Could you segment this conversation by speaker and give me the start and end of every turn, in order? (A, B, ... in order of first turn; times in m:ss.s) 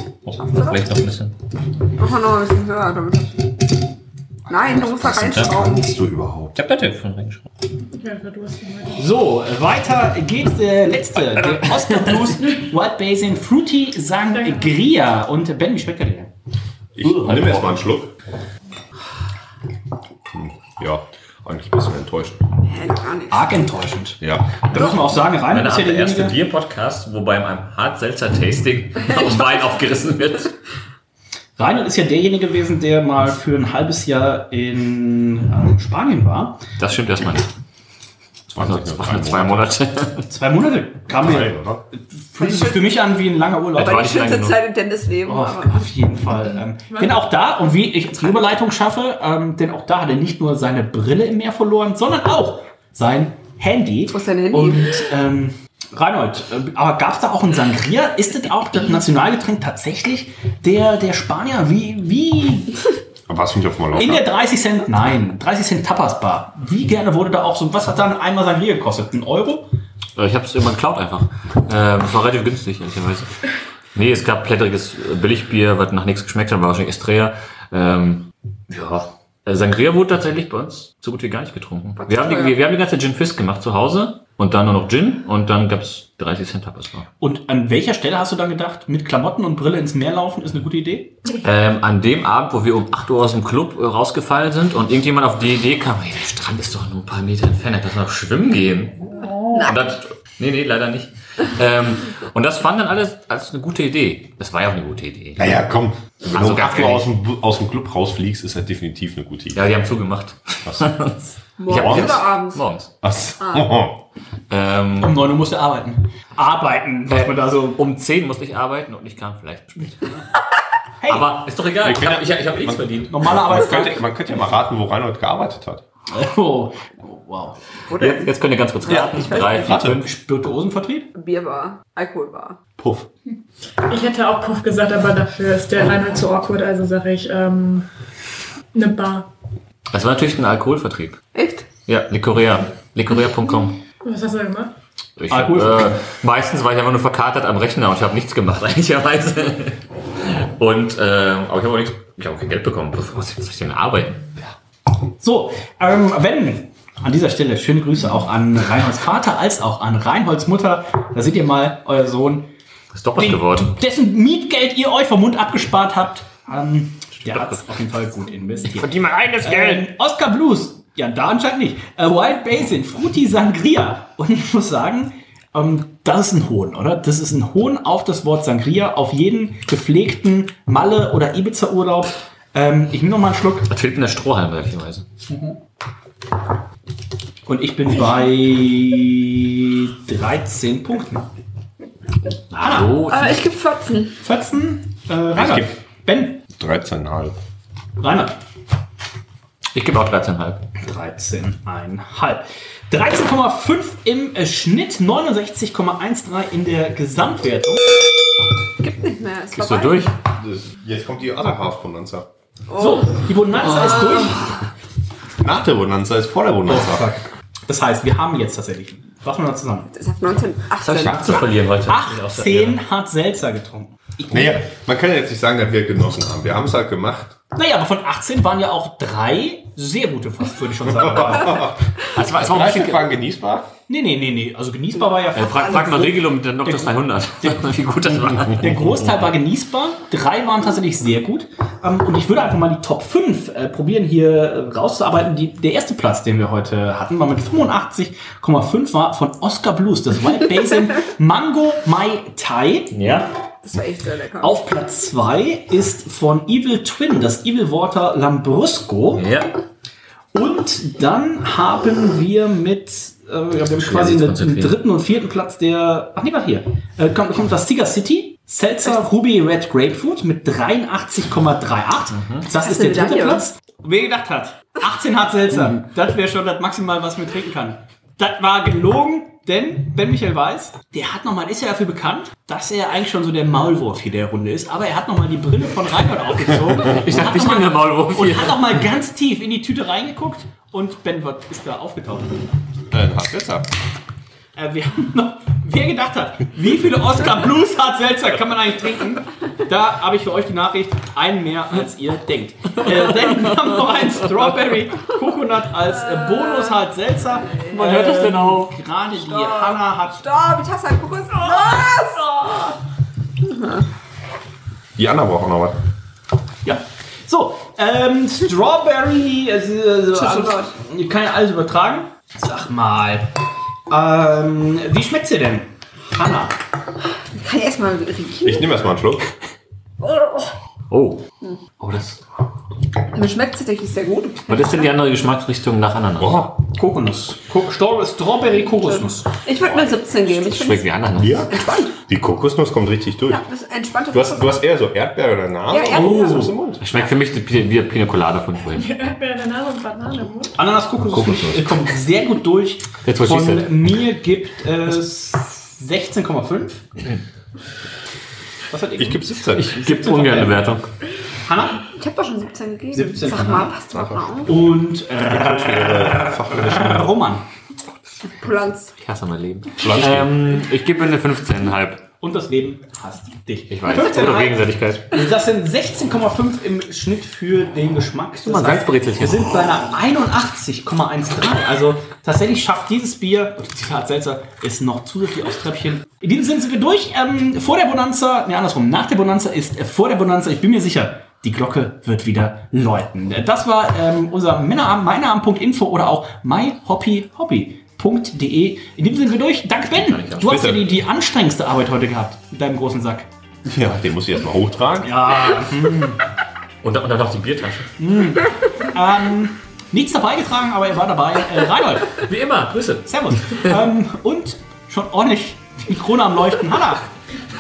0:00.2-0:01.3 A
0:00.5-0:00.8 B
0:02.0-0:03.5 B
0:04.5-0:05.9 B
0:04.5-0:06.6 C
0:06.5-0:07.5 A
0:07.9-0:09.1 D
0:09.0-0:16.3 E
0:14.3-0:14.8 D
0:16.9-0:18.1 C
0:17.0-0:17.8 A
0:20.3-0:22.4 C
0:22.6-0:23.6 B
0:23.3-0:26.4 E
0:24.2-0:25.1 C
0:24.7-0:30.5 A
0:31.6-0:36.6 E
0:36.8-0:37.5 A
0:38.5-0:40.3 A
0:38.5-0:39.7 C
0:40.3-0:44.1 E
0:41.1-0:41.8 C
0:42.4-0:43.1 B
0:43.8-0:44.6 A
0:43.8-0:45.9 B
0:45.2-1:02.7 E
0:54.1-0:55.0 B
1:03.3-1:04.3 C
1:04.0-1:09.7 E
1:10.2-1:13.3 A
1:13.9-1:27.1 A
1:22.0-1:22.6 B
1:27.2-1:31.2 E
1:31.4-1:39.0 A
1:39.6-1:45.6 A
1:45.4-1:49.6 C
1:46.3-1:47.1 A
1:49.5-1:52.9 A
1:50.6-1:50.9 C
1:51.6-1:52.6 B
1:51.7-1:52.3 C
1:53.0-1:54.0 C
1:53.4-1:53.7 B
1:54.5-1:55.3 A
1:55.0-1:57.8 E
1:57.1-2:00.0 A
2:01.0-2:01.2 E
2:01.1-2:03.1 A
2:01.8-2:05.8 C
2:03.1-2:04.2 E
2:06.1-2:07.6 E
2:07.9-2:09.8 B
2:08.0-2:10.1 A
2:08.9-2:10.0 C
2:09.8-2:11.1 E
2:11.1-2:12.6 B
2:12.8-2:13.1 C
2:13.9-2:17.9 D
2:18.7-2:19.3 D
2:19.9-2:21.2 A
2:21.3-2:21.7 B
2:21.8-2:23.8 A
2:24.0-2:24.7 D
2:25.2-2:34.5 A
2:25.3-2:26.0 E
2:35.2-2:42.5 E
2:42.9-2:43.8 A
2:43.2-3:03.7 E
2:47.2-2:47.6 A
2:48.8-2:49.8 A
3:03.7-3:05.0 A
3:05.3-3:05.6 E
3:07.4-3:11.3 E
3:12.5-3:13.0 E
3:12.5-3:13.4 A
3:13.0-3:14.2 B
3:14.2-3:16.4 E
3:15.3-3:15.8 C
3:16.5-3:17.4 C
3:18.0-3:18.3 E
3:19.7-3:20.6 A
3:20.8-3:27.9 E
3:28.8-3:30.1 B
3:29.5-3:30.1 A
3:30.4-3:32.3 C
3:32.7-3:33.2 B
3:32.8-3:34.4 E
3:35.4-3:37.1 C
3:36.7-3:39.9 E
3:39.9-3:41.4 B
3:40.8-3:42.8 A
3:41.0-3:41.4 C
3:41.9-3:44.6 E
3:44.3-3:47.3 C
3:47.5-3:51.7 E
3:51.0-3:53.7 C
3:52.1-3:53.1 A
3:53.9-3:57.6 E
3:55.3-3:58.9 A
3:58.5-4:13.0 E
4:12.9-4:13.3 A
4:13.6-4:14.6 B
4:14.4-4:19.2 E
4:19.2-4:19.5 A
4:20.3-4:52.4 E
4:23.7-4:24.8 A
4:32.1-4:32.4 A
4:32.5-4:33.4 B
4:46.8-4:48.9 A
4:52.9-4:53.7 C
4:54.6-5:10.2 E
5:06.2-5:06.8 B
5:07.5-5:07.8 B
5:07.7-5:08.8 A
5:09.1-5:12.6 B
5:11.6-5:12.6 E
5:13.4-5:13.8 B
5:15.0-5:15.8 C
5:16.6-5:23.3 E
5:20.1-5:20.7 B
5:23.9-5:26.6 E
5:27.3-5:28.9 B
5:28.4-5:29.3 C
5:30.0-5:30.5 B
5:30.9-5:31.2 A
5:31.8-5:32.2 A
5:33.1-5:34.6 B
5:34.5-5:36.4 A
5:36.2-5:36.6 C
5:36.7-5:39.3 E
5:39.4-5:40.9 B
5:40.3-5:41.4 A
5:41.2-5:41.5 C
5:41.5-5:42.0 B
5:42.1-5:43.4 C
5:43.3-5:44.6 B
5:44.1-5:46.9 C
5:45.7-5:46.5 B
5:45.8-5:46.6 E
5:46.8-5:48.9 A
5:48.7-5:50.6 D
5:50.6-5:56.8 E
5:51.0-5:51.8 C
5:53.0-5:54.0 A
5:58.7-6:00.6 E
5:59.0-5:59.8 C
5:59.5-6:00.8 A
6:01.4-6:01.8 E
6:02.0-6:04.6 B
6:02.9-6:03.7 E
6:03.9-6:04.5 C
6:04.4-6:07.4 E
6:05.1-6:07.1 C
6:08.4-6:08.9 B
6:09.0-6:12.0 A
6:09.8-6:10.6 C
6:12.2-6:43.3 E
6:13.7-6:15.1 A
6:18.4-6:19.6 A
6:39.9-6:40.8 A
6:40.4-6:40.8 C
6:43.6-6:45.4 C
6:45.0-6:46.2 E
6:46.8-6:47.9 A
6:48.0-6:52.2 E
6:52.2-6:53.8 A
6:53.0-6:57.1 E